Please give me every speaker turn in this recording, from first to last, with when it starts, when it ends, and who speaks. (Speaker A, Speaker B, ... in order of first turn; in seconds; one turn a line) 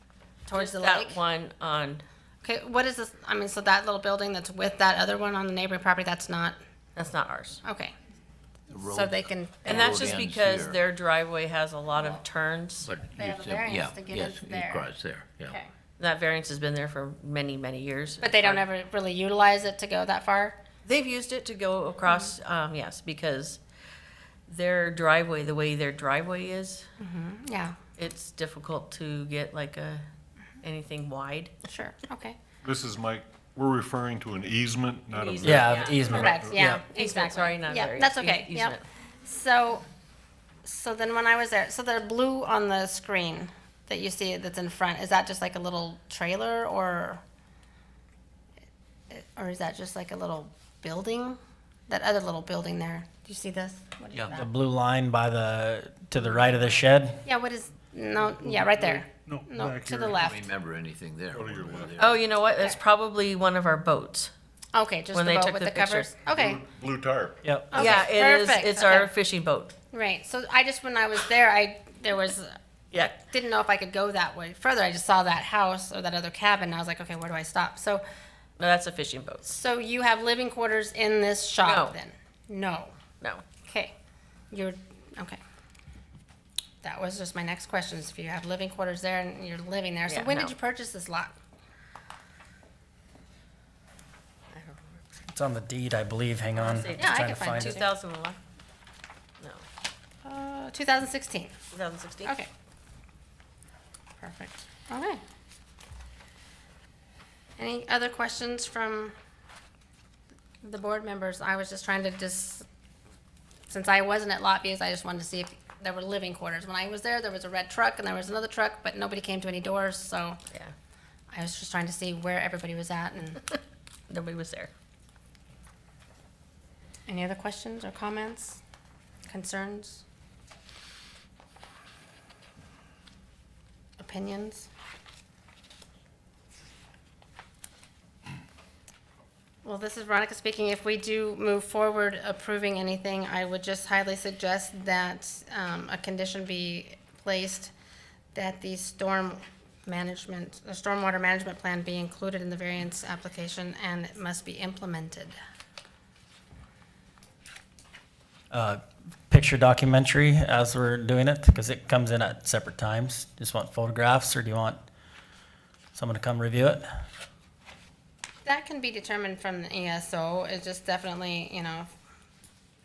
Speaker A: 0.5-1.2
Speaker B: 0.5-2.0
Speaker A: 2.4-6.6
Speaker B: 7.0-7.6
Speaker A: 7.6-7.9
Speaker C: 8.7-10.8
Speaker A: 8.8-10.1
Speaker B: 9.7-12.9
Speaker C: 12.8-15.6
Speaker A: 13.1-14.9
Speaker A: 15.5-15.7
Speaker B: 16.0-18.6
Speaker A: 18.2-20.6
Speaker B: 20.9-23.6
Speaker A: 22.1-22.3
Speaker B: 24.5-26.9
Speaker A: 27.0-27.8
Speaker B: 28.0-30.0
Speaker B: 30.6-31.5
Speaker A: 31.7-32.4
Speaker D: 32.6-36.7
Speaker B: 35.1-38.8
Speaker E: 35.4-36.8
Speaker A: 36.1-39.8
Speaker A: 40.6-47.2
Speaker A: 49.1-51.4
Speaker A: 51.9-54.5
Speaker E: 54.4-57.2
Speaker A: 57.2-60.5
Speaker D: 58.5-60.2
Speaker C: 60.2-62.2
Speaker D: 61.3-62.0
Speaker B: 62.0-64.3
Speaker A: 64.7-66.6
Speaker B: 65.1-66.1
Speaker D: 66.3-67.4
Speaker E: 67.4-68.0
Speaker A: 67.7-69.1
Speaker B: 67.7-69.7
Speaker A: 69.9-72.6
Speaker B: 72.9-73.2
Speaker A: 73.3-78.0
Speaker B: 78.6-79.5
Speaker A: 79.5-82.9
Speaker B: 81.6-82.0
Speaker A: 83.7-83.9
Speaker A: 84.5-85.4
Speaker A: 86.8-91.4
Speaker B: 90.1-90.5
Speaker B: 94.5-94.8
Speaker E: 95.3-97.8
Speaker B: 96.6-98.4
Speaker A: 97.0-97.9
Speaker A: 100.2-101.6
Speaker B: 101.7-102.3
Speaker A: 102.2-102.5
Speaker A: 104.2-105.2
Speaker A: 107.6-109.1
Speaker A: 110.6-112.7
Speaker A: 113.7-120.4
Speaker A: 121.3-123.4
Speaker B: 124.1-124.7
Speaker A: 127.1-128.6
Speaker A: 129.3-130.0
Speaker A: 134.0-134.7
Speaker A: 139.6-147.7
Speaker A: 148.3-155.4
Speaker E: 158.5-164.8
Speaker E: 165.9-166.8
Speaker A: 168.4-171.9